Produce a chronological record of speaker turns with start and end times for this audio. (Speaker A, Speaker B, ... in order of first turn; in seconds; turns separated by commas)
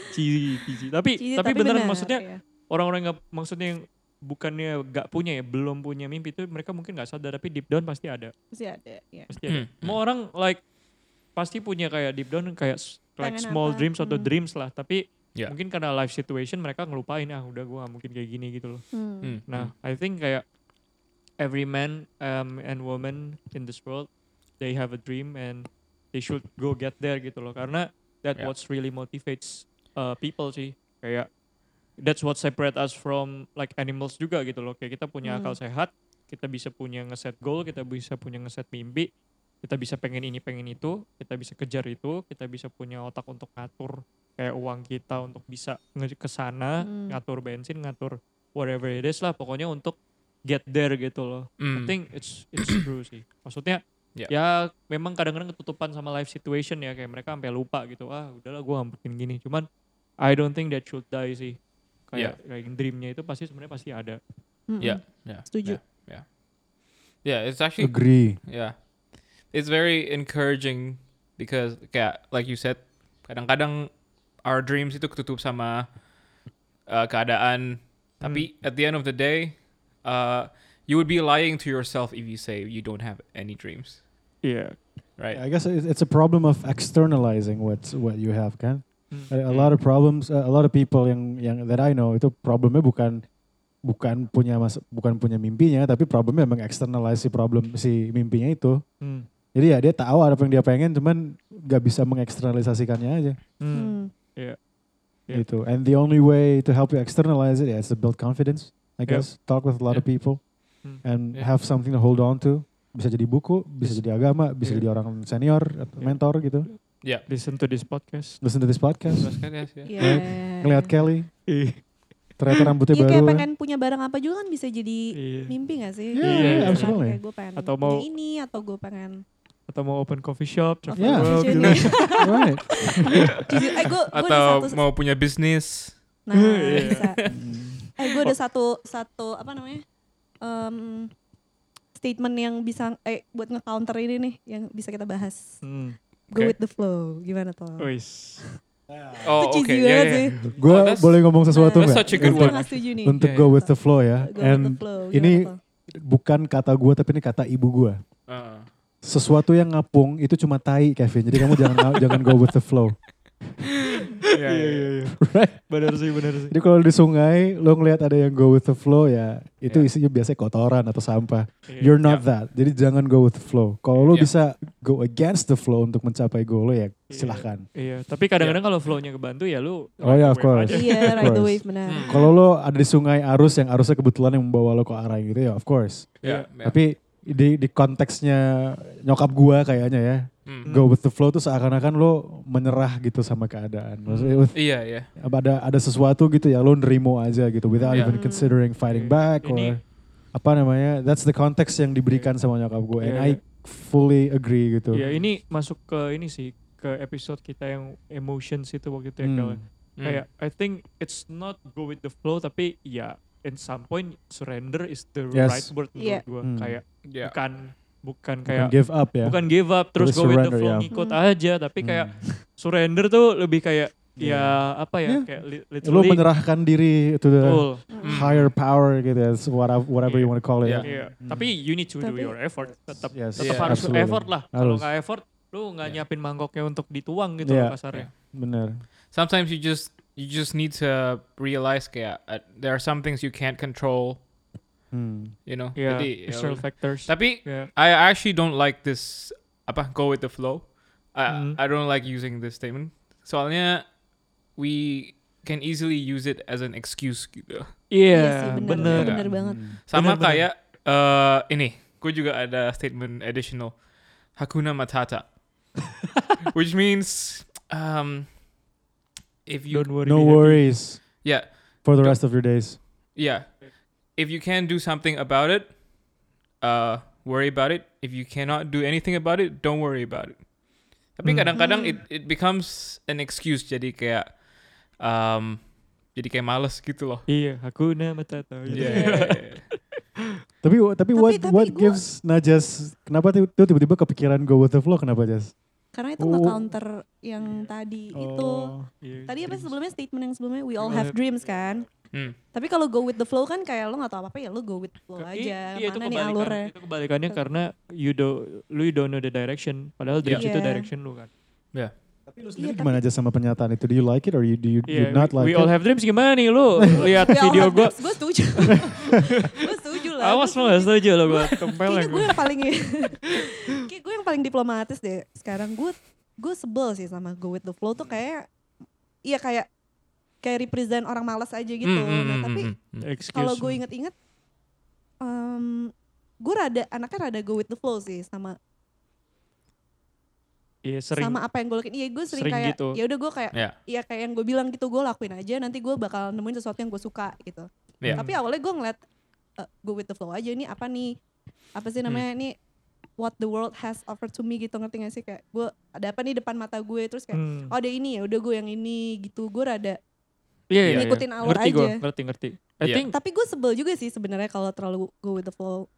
Speaker A: 0.1-8.3, Speaker B: 1.2-2.4, Speaker B: 8.5-9.3, Speaker A: 9.3-10.6, Speaker C: 9.5-10.0, Speaker A: 11.4-18.8, Speaker B: 13.2-14.3, Speaker B: 18.9-19.4, Speaker C: 19.2-19.7, Speaker A: 19.5-20.4, Speaker A: 21.4-31.3, Speaker A: 32.0-39.1, Speaker B: 35.2-35.6, Speaker A: 39.6-59.6, Speaker B: 46.8-47.2, Speaker C: 51.6-52.0, Speaker A: 60.2-64.2, Speaker B: 64.7-65.8, Speaker C: 64.8-66.4, Speaker C: 67.2-76.0, Speaker D: 67.8-68.4, Speaker C: 76.8-84.0, Speaker A: 78.2-78.5, Speaker A: 84.4-84.8, Speaker D: 85.3-93.2, Speaker C: 89.5-89.8, Speaker D: 93.8-98.8, Speaker A: 99.0-99.3, Speaker D: 99.5-103.4, Speaker A: 103.6-104.6, Speaker B: 103.7-104.1, Speaker D: 105.3-116.7, Speaker A: 113.8-114.9, Speaker A: 117.3-118.4, Speaker D: 118.4-119.4, Speaker C: 119.2-120.0, Speaker B: 119.9-120.9, Speaker D: 120.0-121.3, Speaker A: 121.5-121.8, Speaker D: 122.4-123.5, Speaker B: 122.9-129.1, Speaker A: 125.2-125.6, Speaker D: 126.2-127.2, Speaker A: 126.2-127.0, Speaker A: 127.5-128.1, Speaker A: 129.7-132.2, Speaker B: 130.9-132.3, Speaker D: 130.9-133.3, Speaker B: 133.2-134.8, Speaker C: 134.1-136.0, Speaker B: 136.3-137.2, Speaker A: 136.3-138.3, Speaker C: 136.7-137.1, Speaker D: 137.3-137.8, Speaker B: 138.0-139.8, Speaker B: 140.4-141.1, Speaker B: 141.9-145.6, Speaker A: 145.6-146.0, Speaker B: 146.3-147.9, Speaker A: 147.8-148.5, Speaker D: 148.9-149.4, Speaker C: 149.2-153.6, Speaker B: 149.3-150.3, Speaker D: 150.4-158.0, Speaker B: 151.5-155.6, Speaker C: 158.3-158.7, Speaker D: 159.0-163.0, Speaker C: 164.3-164.9, Speaker A: 164.4-166.5, Speaker D: 165.2-165.7, Speaker D: 166.5-177.7, Speaker A: 171.7-172.2, Speaker C: 174.1-174.4, Speaker A: 177.1-181.4, Speaker D: 180.0-205.2, Speaker B: 180.7-182.2, Speaker C: 181.9-182.2, Speaker A: 186.2-186.5, Speaker C: 186.2-186.8, Speaker A: 190.7-190.9, Speaker C: 194.1-195.1, Speaker B: 197.8-198.6, Speaker A: 198.8-199.8, Speaker A: 202.1-202.3, Speaker A: 203.0-203.4, Speaker A: 204.9-226.3, Speaker D: 209.2-209.6, Speaker C: 210.0-210.2, Speaker D: 215.3-215.8, Speaker B: 215.9-216.2, Speaker D: 216.4-216.8, Speaker C: 217.0-217.3, Speaker D: 218.5-220.9, Speaker B: 220.9-221.2, Speaker D: 221.8-222.2, Speaker D: 224.2-225.3, Speaker D: 225.8-231.6, Speaker A: 227.4-227.9, Speaker B: 227.9-228.2, Speaker C: 228.0-228.5, Speaker C: 230.1-230.9, Speaker A: 230.1-238.1, Speaker B: 232.0-232.4, Speaker D: 232.9-234.9, Speaker C: 233.4-233.9, Speaker D: 237.4-238.8, Speaker C: 239.1-244.3, Speaker D: 244.9-245.4, Speaker C: 245.5-254.0, Speaker A: 245.8-247.7, Speaker A: 251.3-251.6, Speaker C: 254.5-257.8, Speaker A: 257.9-260.5, Speaker B: 258.1-259.6, Speaker C: 258.8-265.4, Speaker D: 258.8-259.8, Speaker C: 266.5-268.4, Speaker C: 269.4-269.9, Speaker A: 269.7-270.8, Speaker D: 270.0-272.8, Speaker C: 271.2-272.3, Speaker C: 273.1-275.8, Speaker C: 276.6-280.5, Speaker C: 281.1-287.3, Speaker A: 281.2-281.5, Speaker B: 281.6-282.0, Speaker A: 287.3-290.0, Speaker D: 288.7-289.3, Speaker C: 288.7-289.6, Speaker D: 290.6-295.6, Speaker B: 291.1-292.0, Speaker B: 295.9-298.7, Speaker D: 296.2-296.7, Speaker A: 297.4-297.7, Speaker D: 298.1-298.9, Speaker A: 299.0-299.7, Speaker B: 299.3-301.9, Speaker A: 300.8-301.2, Speaker B: 302.5-306.7, Speaker A: 305.2-311.3, Speaker B: 310.3-310.9, Speaker D: 312.3-315.8, Speaker B: 312.6-313.0, Speaker A: 314.9-318.8, Speaker D: 316.8-317.4, Speaker B: 317.2-328.4, Speaker A: 320.2-322.7, Speaker B: 329.2-329.7, Speaker B: 330.4-332.7, Speaker C: 331.8-333.1, Speaker A: 333.0-333.8, Speaker B: 333.3-334.1, Speaker B: 335.2-335.9, Speaker B: 336.4-338.6, Speaker A: 340.9-341.4, Speaker B: 341.1-349.0, Speaker A: 342.3-343.0, Speaker A: 348.1-348.4, Speaker B: 349.6-351.2, Speaker B: 351.8-352.5, Speaker B: 353.2-360.0, Speaker A: 357.3-357.7, Speaker A: 360.7-363.1, Speaker C: 360.8-361.1, Speaker B: 360.8-362.0, Speaker C: 362.8-363.1, Speaker B: 363.1-365.9